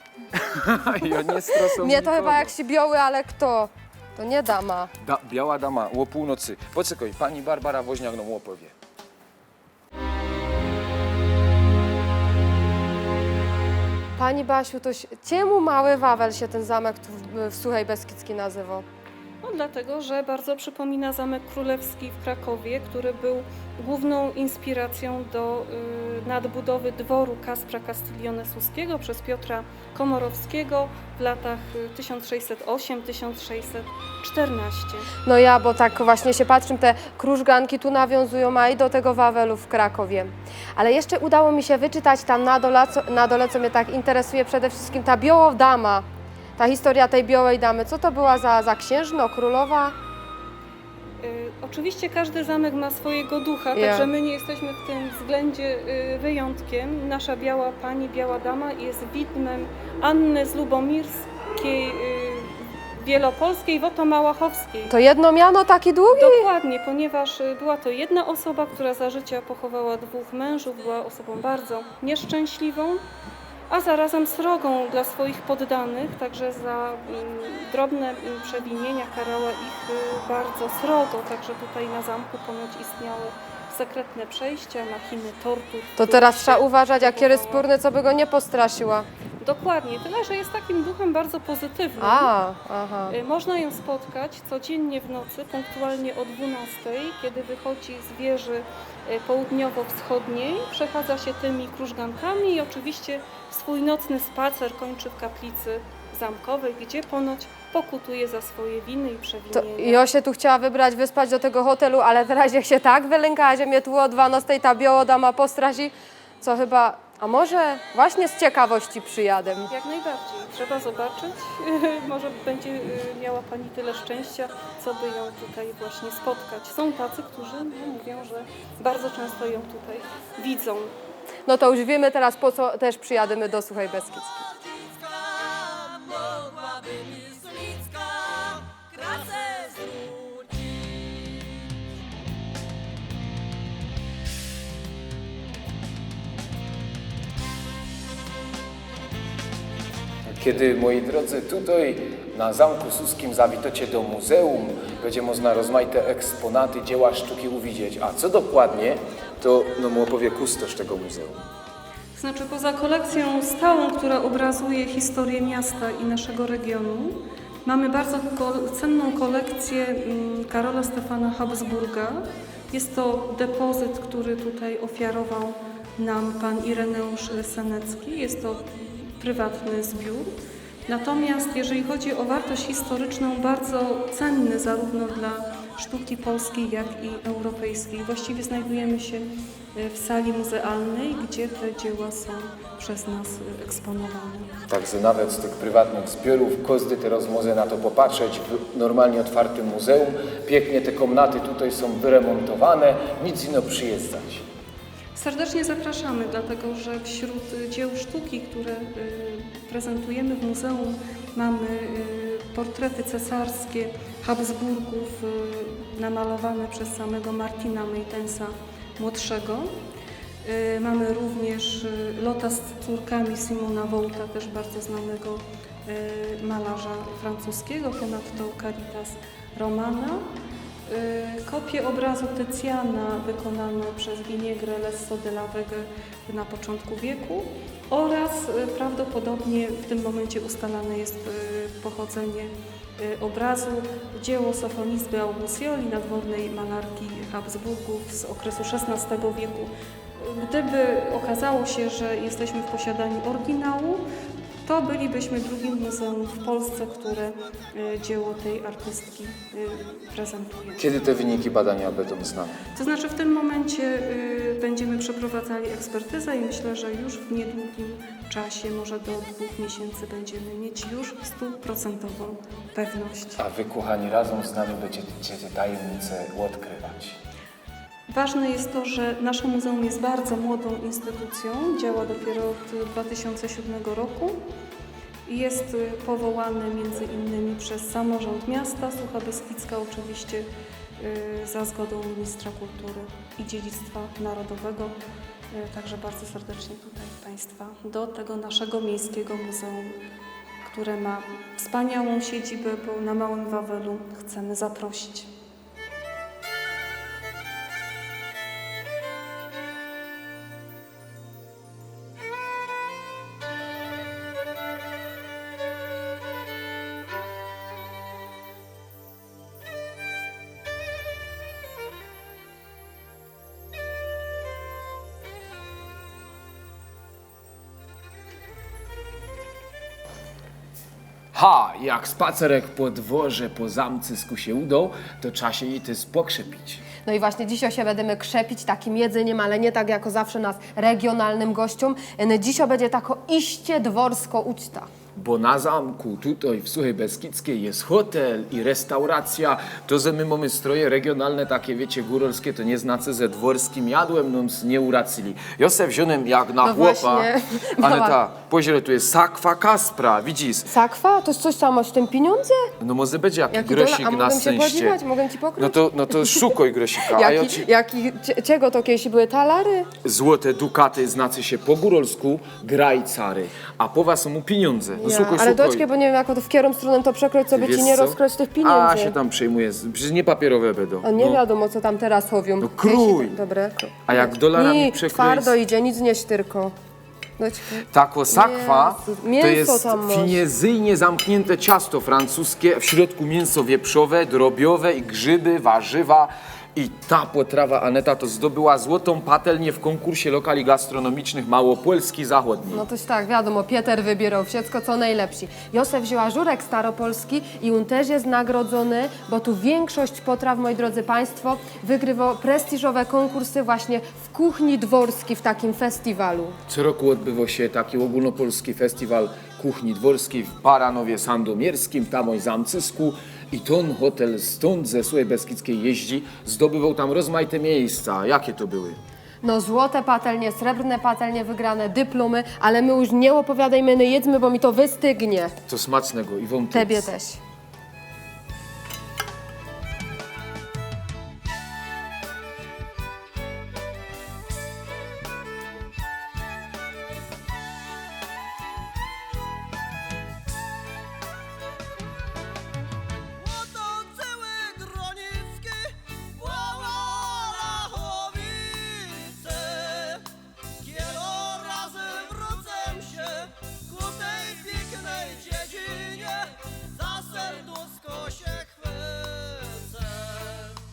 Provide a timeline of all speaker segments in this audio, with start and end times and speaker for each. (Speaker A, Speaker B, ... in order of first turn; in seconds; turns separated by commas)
Speaker A: 0.3-2.5, Speaker B: 1.4-4.9, Speaker A: 5.0-8.7, Speaker B: 14.2-18.8, Speaker C: 19.4-35.1, Speaker B: 35.2-46.0, Speaker B: 46.6-49.9, Speaker C: 51.2-65.0, Speaker B: 53.7-54.1, Speaker B: 64.9-66.5, Speaker C: 66.1-73.0, Speaker C: 73.7-87.7, Speaker B: 86.0-89.1, Speaker C: 89.4-92.3, Speaker B: 92.0-93.1, Speaker C: 93.1-110.0, Speaker B: 109.5-119.7, Speaker C: 119.7-130.9, Speaker B: 131.4-134.5, Speaker D: 134.8-141.0, Speaker A: 150.3-161.4, Speaker C: 162.1-180.3, Speaker C: 180.9-194.6, Speaker A: 194.7-204.4, Speaker C: 205.1-219.8, Speaker C: 220.4-230.3, Speaker C: 230.9-254.1, Speaker C: 254.6-260.8, Speaker A: 260.8-262.6, Speaker C: 262.7-273.4, Speaker A: 273.4-277.2, Speaker C: 278.1-284.4, Speaker C: 285.2-290.5, Speaker C: 291.0-294.9, Speaker C: 295.5-299.9, Speaker C: 300.6-305.3, Speaker A: 331.3-336.8, Speaker B: 337.0-344.9, Speaker A: 345.1-360.7, Speaker B: 356.6-358.2, Speaker B: 360.7-362.7, Speaker A: 362.8-365.0, Speaker B: 363.5-366.5, Speaker A: 365.6-367.6, Speaker B: 367.0-369.9, Speaker A: 370.0-375.8, Speaker B: 374.9-379.1, Speaker A: 377.5-381.4, Speaker B: 381.0-386.7, Speaker A: 382.6-383.3, Speaker A: 384.1-385.5, Speaker B: 387.4-390.4, Speaker A: 387.9-402.8, Speaker B: 402.7-416.6, Speaker A: 416.7-429.0, Speaker B: 429.4-435.5, Speaker A: 435.7-437.1, Speaker B: 436.7-437.4, Speaker D: 453.4-460.2, Speaker D: 460.8-470.8